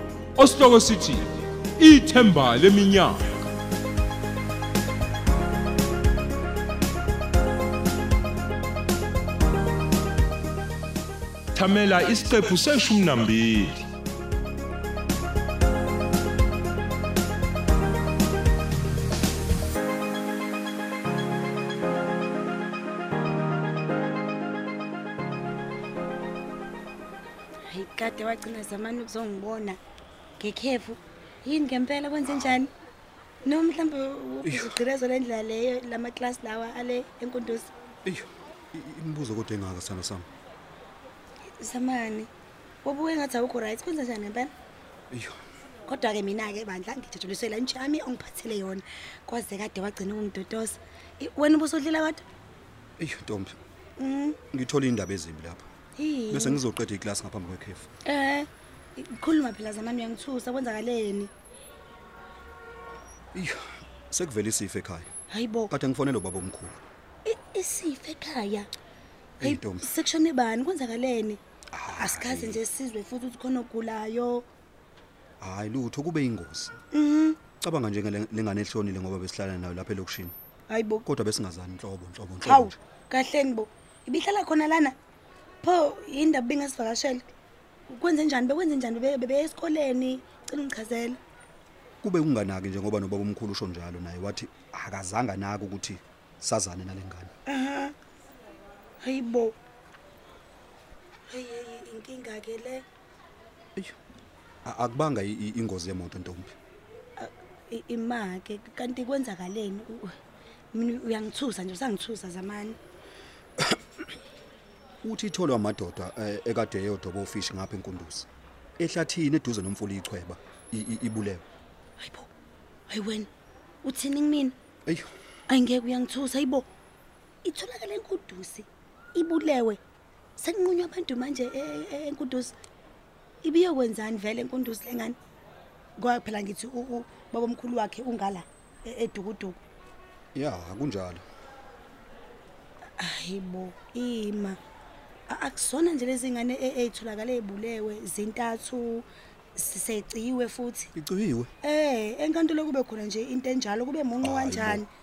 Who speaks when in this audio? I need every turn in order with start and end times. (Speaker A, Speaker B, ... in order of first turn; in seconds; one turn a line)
Speaker A: 0.4-3.2
Speaker A: 11.6-13.8
Speaker B: 27.7-29.8
Speaker B: 30.4-32.7
Speaker C: 32.2-32.6
Speaker B: 33.4-37.7
Speaker C: 34.5-34.8
Speaker C: 38.0-40.3
Speaker B: 41.6-42.3
Speaker B: 42.8-44.5
Speaker C: 45.1-45.4
Speaker B: 45.9-52.2
Speaker C: 53.0-53.5
Speaker B: 54.0-54.4
Speaker C: 54.5-55.7
Speaker B: 56.0-56.6
Speaker C: 56.3-57.9
Speaker B: 58.1-61.3
Speaker C: 63.3-65.1
Speaker B: 65.3-65.7
Speaker C: 65.7-66.8
Speaker B: 67.2-68.7
Speaker C: 69.4-70.0
Speaker B: 69.4-71.4
Speaker C: 71.7-72.6
Speaker B: 71.9-74.5
Speaker C: 75.4-76.8
Speaker B: 76.9-77.4
Speaker C: 77.5-80.3
Speaker B: 80.7-81.0
Speaker C: 81.0-82.8
Speaker B: 82.4-85.0
Speaker B: 85.6-87.3
Speaker B: 87.9-91.2
Speaker C: 92.0-97.3
Speaker B: 97.5-98.0
Speaker B: 99.0-99.5
Speaker B: 101.3-102.8
Speaker C: 104.7-106.5
Speaker B: 107.2-110.2
Speaker B: 110.7-112.8
Speaker C: 115.0-118.3
Speaker C: 118.8-121.4
Speaker B: 122.0-122.3
Speaker B: 122.9-123.3
Speaker B: 123.8-124.5
Speaker B: 125.5-126.7
Speaker B: 127.4-129.8
Speaker B: 130.4-132.5
Speaker B: 133.4-135.2
Speaker B: 136.0-139.6
Speaker C: 140.3-141.2
Speaker B: 143.0-144.6
Speaker B: 145.3-149.1
Speaker B: 149.6-150.9
Speaker C: 150.9-151.5
Speaker B: 151.6-154.9
Speaker C: 154.2-154.8